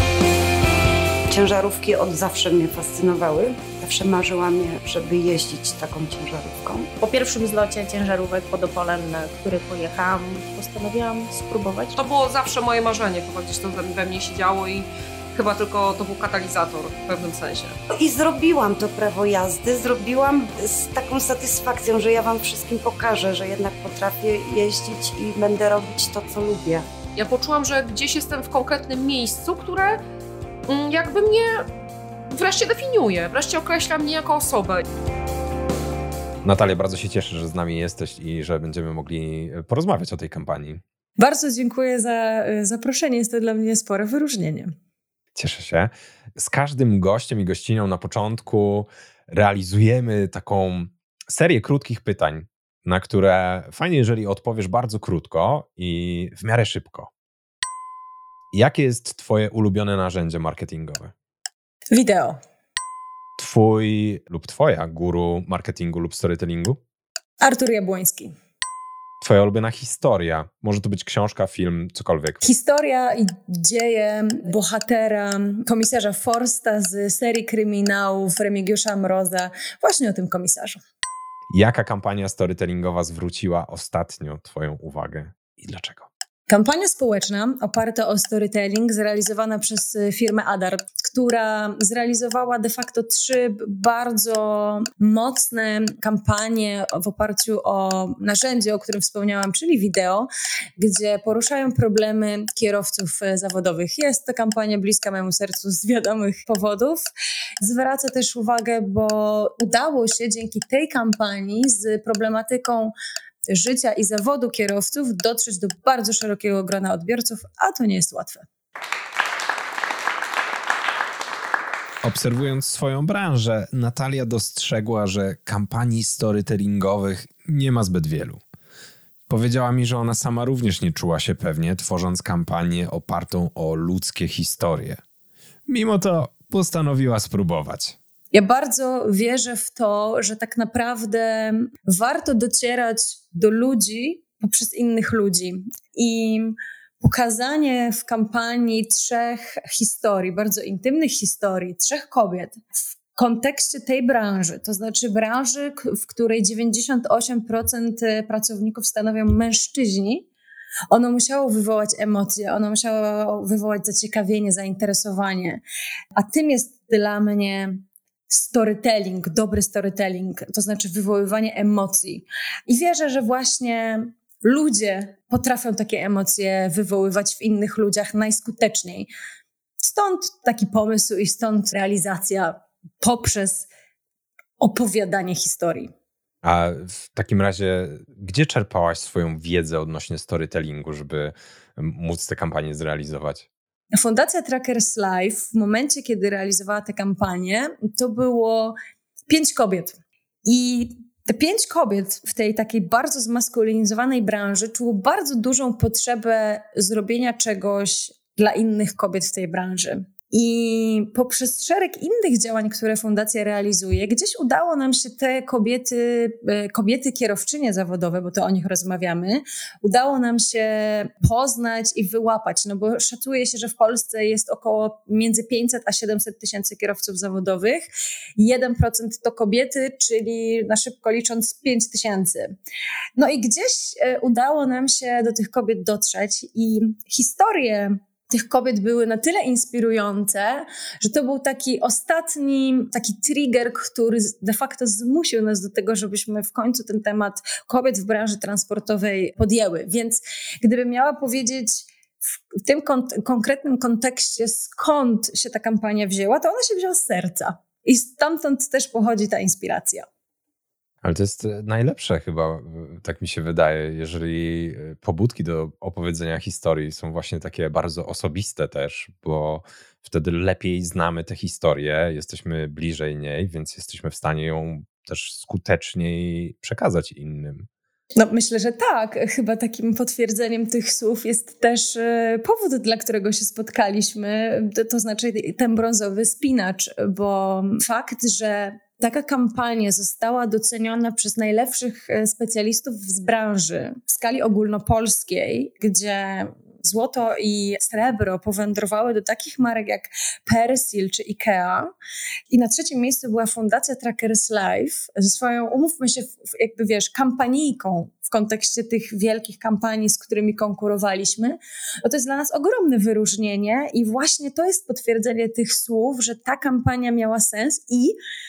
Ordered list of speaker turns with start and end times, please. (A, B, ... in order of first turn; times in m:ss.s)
0:01.3-0:06.9 A
0:07.0-0:11.9 B
0:11.9-0:17.8 C
0:17.9-0:26.9 A
0:27.1-0:30.0 C
0:30.7-0:31.7 C
0:32.3-0:34.8 C
0:36.4-0:40.8 D
0:41.2-0:44.7 E
0:45.3-0:57.1 D
0:58.5-1:01.1 D
1:01.9-1:02.4 E
1:03.4-1:06.8 D
1:07.4-1:08.3 E
1:09.2-1:12.4 D
1:12.4-1:20.8 E
1:21.5-1:26.1 D
1:26.5-1:47.1 E
1:47.6-1:52.9 E
1:53.5-1:58.4 E
2:02.0-2:08.4 D
2:09.3-2:15.0 D
2:15.7-2:18.0 D
2:18.3-2:40.3 E
2:40.9-2:45.6 E
2:46.1-2:59.1 E
2:59.8-3:03.7 E
3:04.6-3:05.9 E
3:06.4-3:13.4 D
3:13.9-3:18.8 E
3:19.3-3:47.8 E
3:48.4-3:52.5 E
3:53.2-4:11.9 E
4:12.6-4:20.0 E
4:21.0-4:37.7 D
4:38.2-5:01.9 E
5:02.5-5:18.2 E